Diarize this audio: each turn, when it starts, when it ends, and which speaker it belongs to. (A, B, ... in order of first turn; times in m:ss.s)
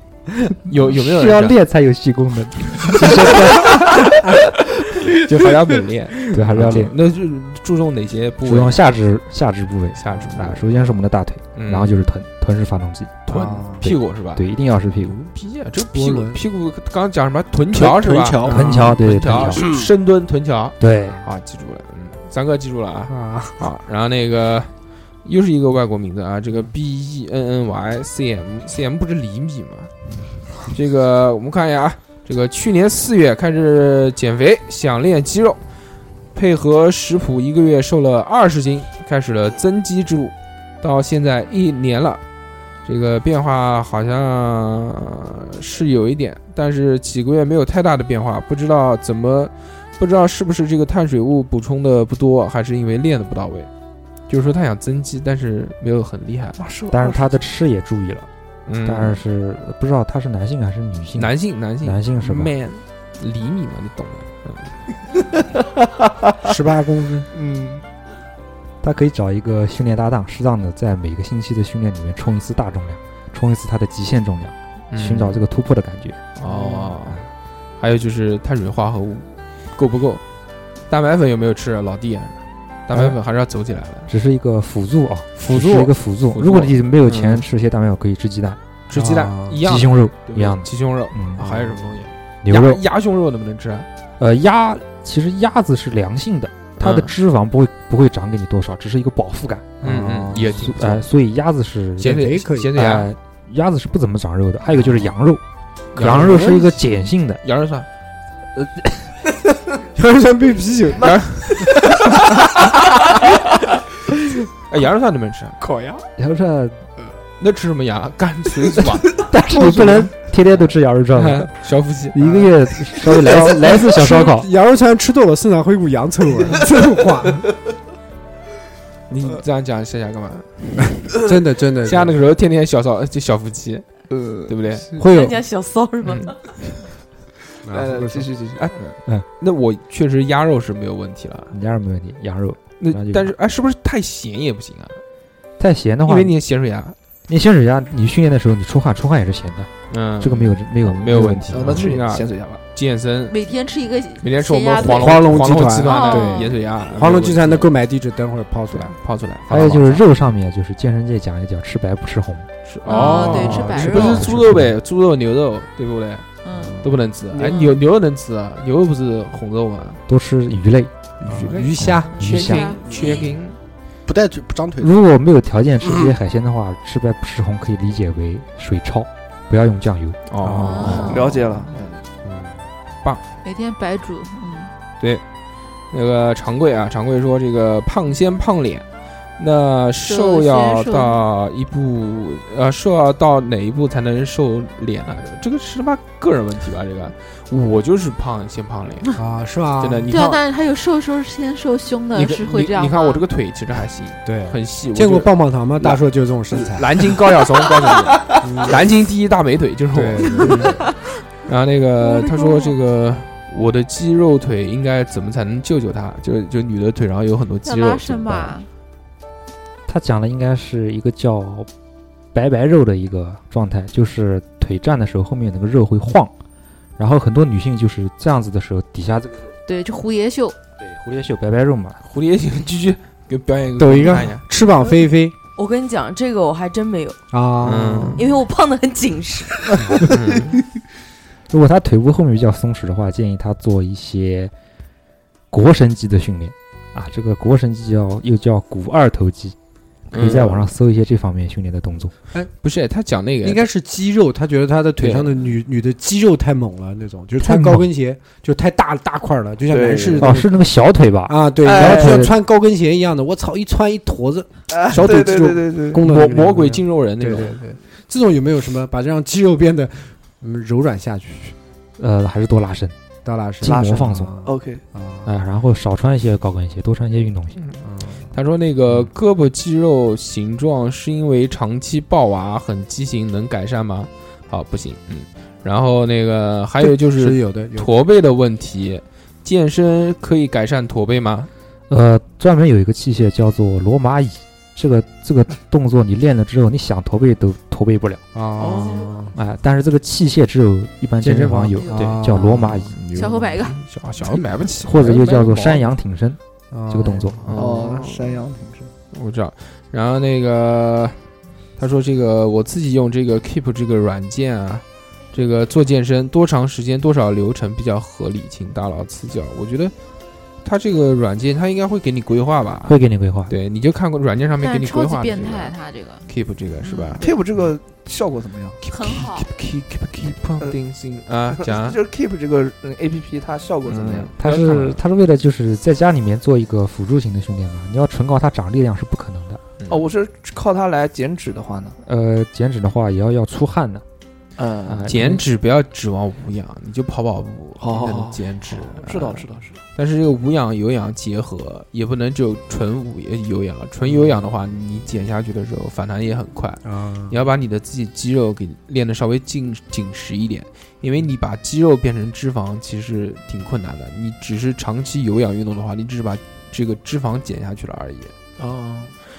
0:00.6-0:01.6 A
0:00.9-0:04.0 B
0:05.1-0:08.8 A
0:06.3-0:06.9 B
0:06.4-0:06.9 C
0:08.4-0:15.2 B
0:10.0-0:10.6 A
0:11.6-0:12.1 A
0:13.3-0:14.4 A
0:13.3-0:13.9 C
0:15.0-0:24.7 A
0:15.9-0:16.4 C
0:17.7-0:18.8 D
0:18.4-0:19.0 C
0:18.4-0:19.7 B
0:19.5-0:19.8 D
0:20.8-0:21.2 B
0:23.1-0:23.6 C
0:25.2-0:29.9 A
0:30.7-0:35.6 A
0:36.3-0:42.2 A
0:42.8-0:53.7 A
0:54.3-0:56.6 A
0:56.6-0:57.4 E
0:56.9-0:58.3 B
0:58.7-0:59.2 A
0:58.8-1:02.5 B
1:01.2-1:04.8 A
1:06.4-1:07.3 C
1:07.3-1:07.8 E
1:08.8-1:16.3 B
1:14.9-1:15.4 A
1:16.4-1:17.2 A
1:16.5-1:17.0 C
1:17.8-1:20.2 A
1:20.9-1:24.1 A
1:24.1-1:28.6 B
1:25.4-1:25.9 C
1:26.3-1:27.4 A
1:28.9-1:33.9 A
1:28.9-1:29.6 C
1:29.6-1:31.5 B
1:32.4-1:32.8 B
1:34.2-1:39.8 B
1:36.8-1:37.1 A
1:39.8-1:41.1 A
1:39.8-1:40.5 C
1:40.5-1:42.2 B
1:42.0-1:43.1 A
1:42.0-1:42.7 C
1:42.7-1:45.4 B
1:45.9-1:46.7 A
1:46.0-1:47.4 B
1:46.0-1:46.7 C
1:47.4-1:47.9 A
1:49.9-1:51.2 C
1:51.0-1:52.0 E
1:51.0-1:51.6 A
1:54.7-1:55.6 A
1:55.6-1:56.0 E
1:56.2-1:56.8 B
1:57.4-1:59.1 A
1:59.2-2:04.5 B
1:59.5-2:00.1 C
2:01.1-2:02.3 A
2:02.2-2:02.5 C
2:03.0-2:07.5 C
2:09.1-2:11.1 A
2:11.2-2:12.2 C
2:11.8-2:13.9 A
2:14.1-2:15.0 E
2:14.4-2:14.9 A
2:15.0-2:15.4 C
2:15.0-2:16.4 F
2:16.0-2:16.4 A
2:17.6-2:18.3 C
2:17.7-2:19.0 E
2:19.4-2:21.5 A
2:21.5-2:23.3 B
2:22.8-2:25.0 A
2:25.6-2:26.4 B
2:26.1-2:27.0 A
2:27.3-2:32.0 B
2:29.9-2:33.4 A
2:31.5-2:32.6 E
2:33.3-2:36.5 G
2:34.2-2:37.7 A
2:34.9-2:39.0 C
2:38.7-2:40.0 A
2:39.5-2:42.5 B
2:42.7-2:46.3 A
2:42.8-2:44.4 G
2:43.0-2:43.9 C
2:43.5-2:44.8 B
2:46.4-2:46.8 G
2:46.5-2:47.0 C
2:46.8-2:50.0 A
2:47.4-2:47.8 G
2:50.1-2:50.9 B
2:51.2-2:53.6 A
2:51.2-2:52.4 C
2:51.8-2:52.8 B
2:52.2-2:53.3 G
2:54.1-2:54.9 D
2:54.8-3:01.4 B
3:00.3-3:01.3 A
3:00.4-3:01.1 C
3:00.6-3:01.3 G
3:01.1-3:02.0 E
3:02.2-3:02.6 C
3:03.4-3:04.7 G
3:05.9-3:08.8 A
3:09.4-3:19.2 A
3:10.0-3:11.3 G
3:19.2-3:20.3 C
3:19.8-3:20.4 A
3:20.1-3:23.2 G
3:22.1-3:30.9 A
3:24.2-3:27.2 C
3:28.4-3:28.8 C
3:29.9-3:30.8 C
3:30.7-3:31.0 G
3:31.4-3:38.6 A
3:32.0-3:32.8 G
3:37.6-3:38.7 G
3:39.9-3:41.7 B
3:42.3-3:46.3 B
3:47.0-3:49.5 B
3:49.7-3:50.6 G
3:50.8-3:52.0 B
3:52.0-3:54.4 A
3:53.8-3:55.4 C
3:55.6-3:57.2 F
3:57.3-3:58.2 C
3:57.6-3:58.2 A
3:58.2-3:59.9 F
3:59.8-4:00.1 C
4:00.1-4:00.6 A
4:01.5-4:04.5 B
4:05.5-4:09.6 B
4:10.1-4:10.7 A
4:10.1-4:12.2 B
4:12.6-4:13.7 A
4:13.4-4:20.6 C
4:15.0-4:15.3 A
4:17.4-4:17.9 B
4:19.7-4:20.3 E
4:20.2-4:22.4 B
4:21.3-4:31.6 C
4:21.6-4:22.3 E
4:24.7-4:26.0 E
4:26.0-4:27.6 A
4:32.0-4:33.0 B
4:33.2-4:35.3 C
4:33.6-4:34.3 B
4:33.7-4:34.8 E
4:35.2-4:37.6 B
4:37.8-4:38.3 C
4:38.3-4:51.5 A
4:46.8-4:47.9 C
4:51.9-4:58.2 B
4:58.3-4:59.4 C
4:58.6-4:59.1 E
4:59.3-5:03.0 B
5:01.2-5:02.8 C
5:01.8-5:02.3 G
5:02.5-5:05.9 A
5:03.1-5:03.8 G
5:04.8-5:07.5 B
5:06.7-5:07.6 C
5:07.4-5:08.4 A
5:07.5-5:08.9 E
5:09.1-5:11.2 A
5:11.8-5:20.0 A
5:20.6-5:23.0 A
5:22.8-5:23.6 B
5:23.5-5:25.8 A
5:24.6-5:26.2 G
5:26.3-5:27.2 A
5:26.8-5:27.4 G
5:27.2-5:28.8 E
5:28.8-5:32.0 A
5:28.9-5:29.5 G
5:31.6-5:34.3 E
5:33.9-5:35.0 A
5:34.4-5:39.6 B
5:39.8-5:40.1 A
5:39.9-5:42.0 E
5:42.0-5:44.0 B
5:44.6-5:45.1 E
5:44.9-5:45.4 B
5:45.0-6:08.3 A
5:47.8-5:49.8 E
5:54.1-5:54.4 C
5:56.8-5:57.4 C
6:08.6-6:09.1 E